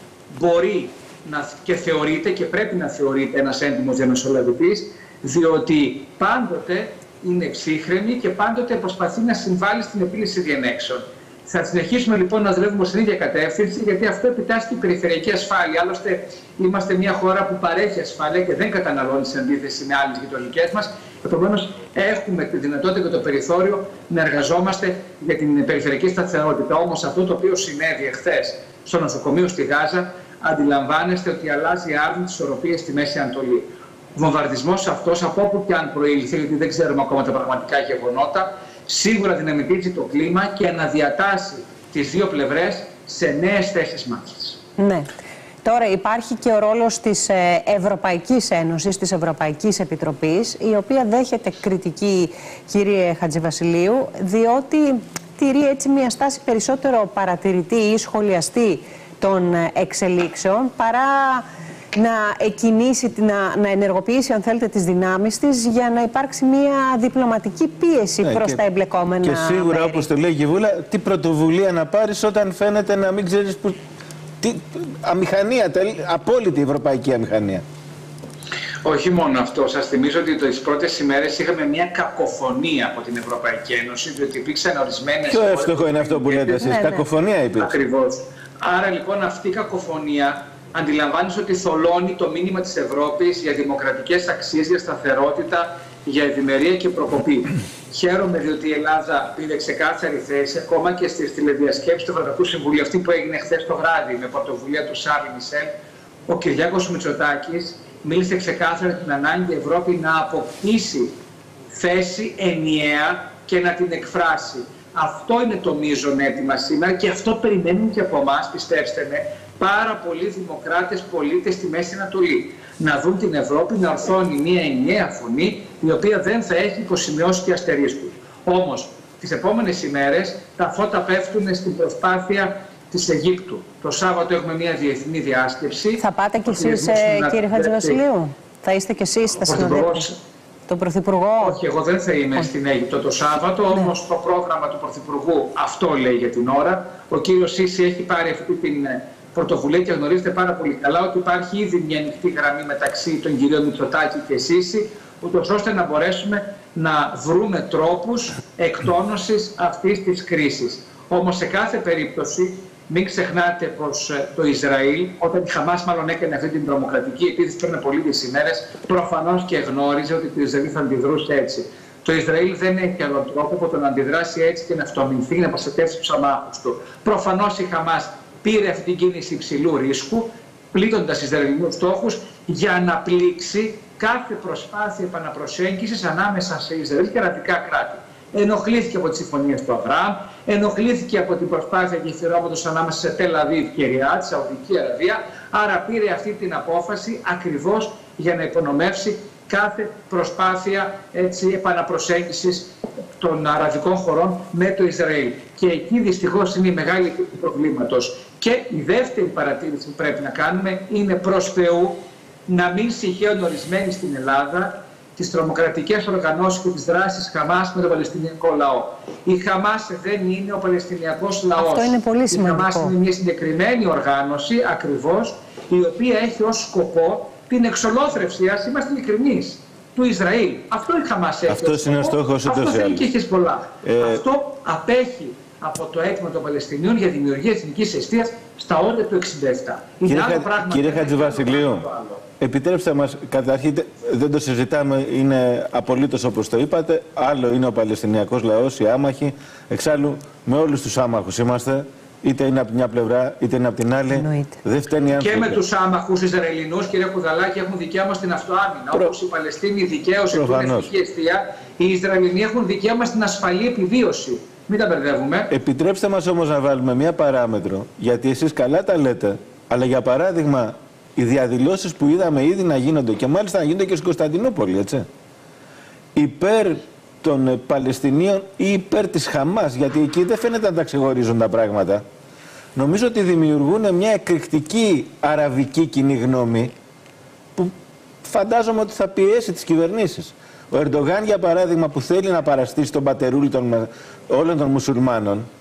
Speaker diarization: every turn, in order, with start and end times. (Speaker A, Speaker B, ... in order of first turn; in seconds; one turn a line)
Speaker A: 0.3-44.6
Speaker B: 44.8-45.1
Speaker B: 45.6-70.1
Speaker C: 68.2-68.6
Speaker C: 69.2-73.8
Speaker C: 74.4-77.6
Speaker A: 78.8-86.7
Speaker C: 85.3-87.7
Speaker B: 86.6-87.0
Speaker A: 87.6-105.7
Speaker A: 106.3-111.1
Speaker A: 111.7-138.0
Speaker B: 136.0-140.1
Speaker A: 139.5-140.2
Speaker B: 140.7-141.6
Speaker A: 141.4-242.2
Speaker B: 221.6-222.9
Speaker C: 231.5-233.1
Speaker C: 233.8-234.2
Speaker C: 240.1-241.9
Speaker C: 242.4-255.6
Speaker B: 254.1-254.6
Speaker A: 255.1-265.5
Speaker C: 260.3-260.9
Speaker C: 265.5-275.1
Speaker C: 276.1-282.1
Speaker C: 282.8-286.7
Speaker C: 287.6-295.5